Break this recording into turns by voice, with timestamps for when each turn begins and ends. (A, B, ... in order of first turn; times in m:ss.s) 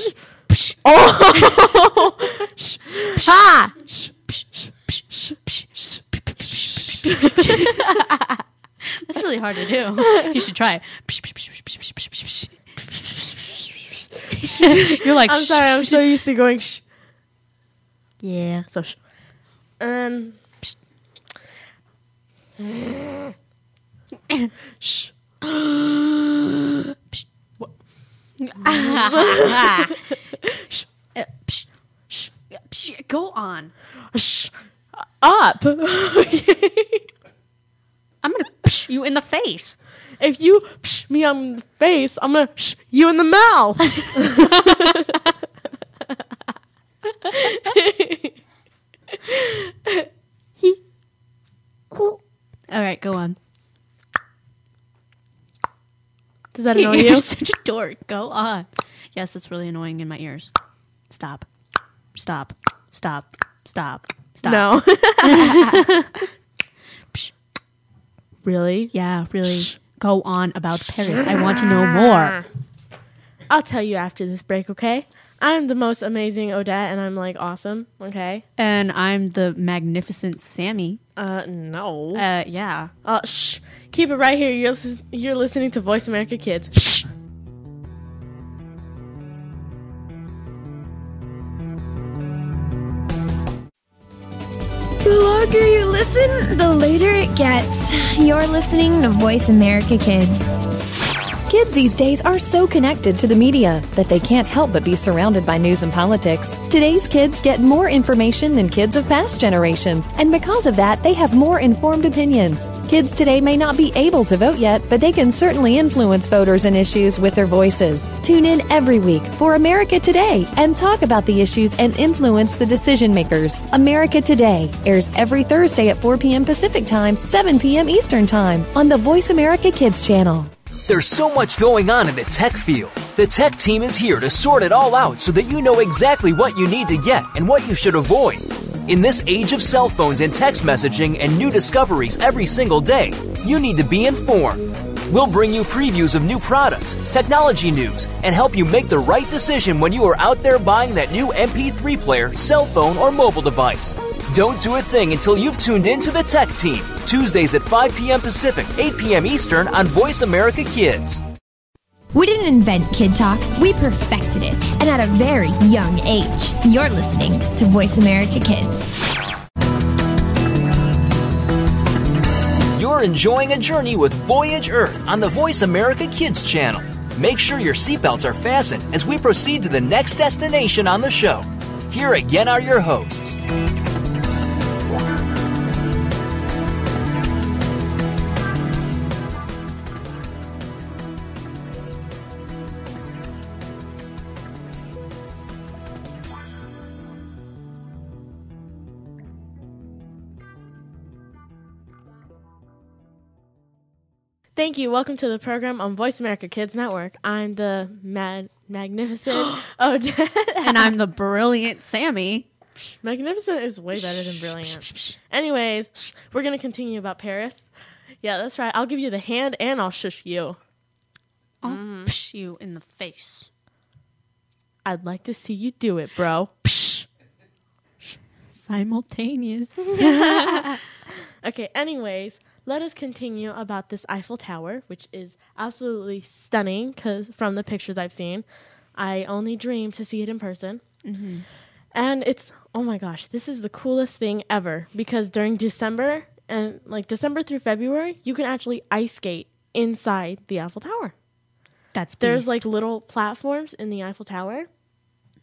0:00.8-0:03.3 A
0:01.3-0:01.8 B
0:03.0-0:03.8 B
0:04.9-0:08.0 B
0:07.2-0:08.4 A
0:08.8-0:13.2 B
0:10.0-0:10.3 A
0:14.3-0:16.1 B
0:14.4-0:16.8 A
0:18.2-0:18.7 B
0:18.7-0:19.0 A
0:19.8-0:20.4 A
0:22.6-0:23.3 A
0:24.8-0:25.1 A
0:25.6-0:26.2 B
0:28.4-0:30.0 B
0:28.6-0:30.8 A
0:31.1-0:33.7 B
0:34.1-0:37.1 A
0:38.2-0:39.8 B
0:40.2-0:45.2 A
0:44.4-0:44.7 B
0:47.2-0:48.4 A
0:49.1-0:50.1 A
0:51.9-0:53.4 B
0:56.5-0:57.3 A
0:56.7-1:00.5 B
1:01.1-1:01.5 B
1:02.1-1:06.2 B
1:04.4-1:05.9 A
1:08.4-1:08.9 A
1:08.9-1:12.4 B
1:13.5-1:18.4 A
1:18.6-1:21.0 B
1:21.2-1:22.3 A
1:22.1-1:22.9 B
1:23.0-1:26.8 A
1:35.0-1:40.6 C
1:41.5-2:10.5 D
2:10.9-2:41.2 E
2:42.1-2:48.9 C
2:52.8-3:03.4 E
3:24.6-3:30.9 A
3:30.6-3:32.5 B
3:32.8-3:37.7 A
3:33.9-3:35.1 B
3:38.2-3:40.6 A
3:41.6-3:43.5 B
3:41.6-3:42.1 A
3:44.8-3:46.7 A
3:48.5-3:50.8 B
3:50.0-3:50.8 A
3:51.4-3:58.4 A
3:59.0-4:00.8 A
4:01.0-4:01.4 B
4:01.9-4:11.1 A
4:11.9-4:12.6 B
4:12.2-4:14.7 A